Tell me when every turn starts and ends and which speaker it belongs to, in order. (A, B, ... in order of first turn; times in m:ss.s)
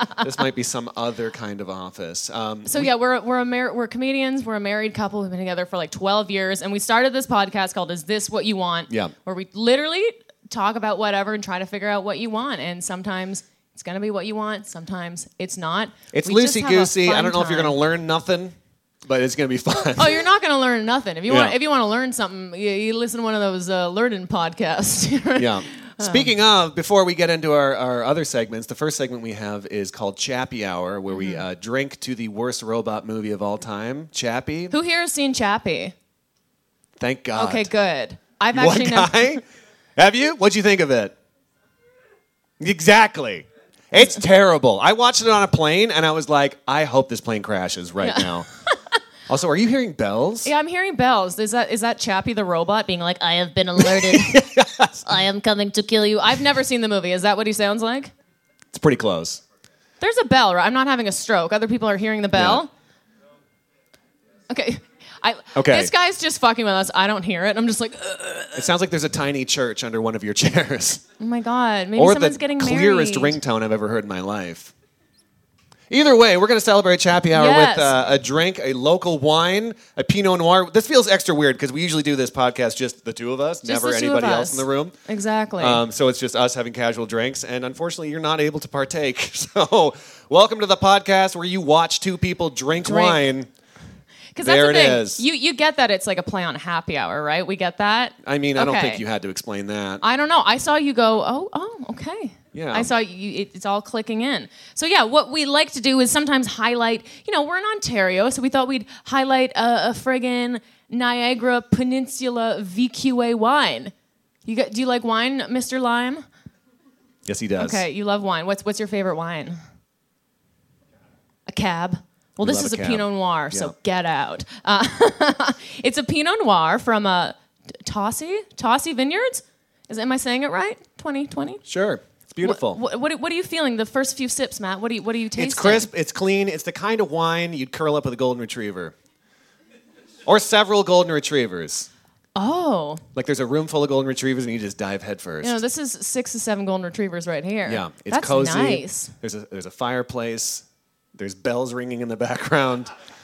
0:00.2-0:02.9 A
0:02.6-0:17.8 B
0:16.1-0:20.2 A
0:19.9-0:26.3 B
0:21.3-0:21.6 A
0:25.4-0:34.7 A
0:31.1-0:31.4 B
0:34.7-0:35.9 B
0:37.0-0:37.7 A
0:37.3-0:39.3 B
0:38.5-0:39.4 A
0:40.0-0:41.1 A
0:42.6-0:48.5 A
0:48.0-0:48.3 B
0:49.3-0:50.5 A
0:50.4-0:54.4 B
0:53.8-0:55.0 A
0:55.0-0:58.1 B
0:58.7-0:59.4 A
1:00.0-1:02.7 B
1:02.3-1:02.6 A
1:04.5-1:08.7 B
1:05.5-1:05.9 A
1:08.5-1:11.0 A
1:11.2-1:13.4 B
1:12.0-1:14.7 A
1:15.9-1:25.0 A
1:17.3-1:17.9 B
1:23.6-1:25.8 B
1:25.6-1:33.5 A
1:32.8-1:33.2 B
1:34.3-1:39.0 B
1:34.4-1:35.2 A
1:38.2-1:40.0 A
1:40.0-1:53.9 B
1:42.5-1:42.9 A
1:54.4-1:56.2 B
1:57.2-1:57.8 A
1:57.6-1:59.6 B
2:01.5-2:11.6 B
2:02.4-2:03.7 A
2:11.6-2:12.8 A
2:12.4-2:15.9 B
2:15.3-2:18.9 A
2:20.2-2:21.9 A
2:22.4-2:23.0 B
2:23.1-2:25.6 A
2:25.4-2:29.1 B
2:27.7-2:30.6 A
2:31.1-2:32.9 A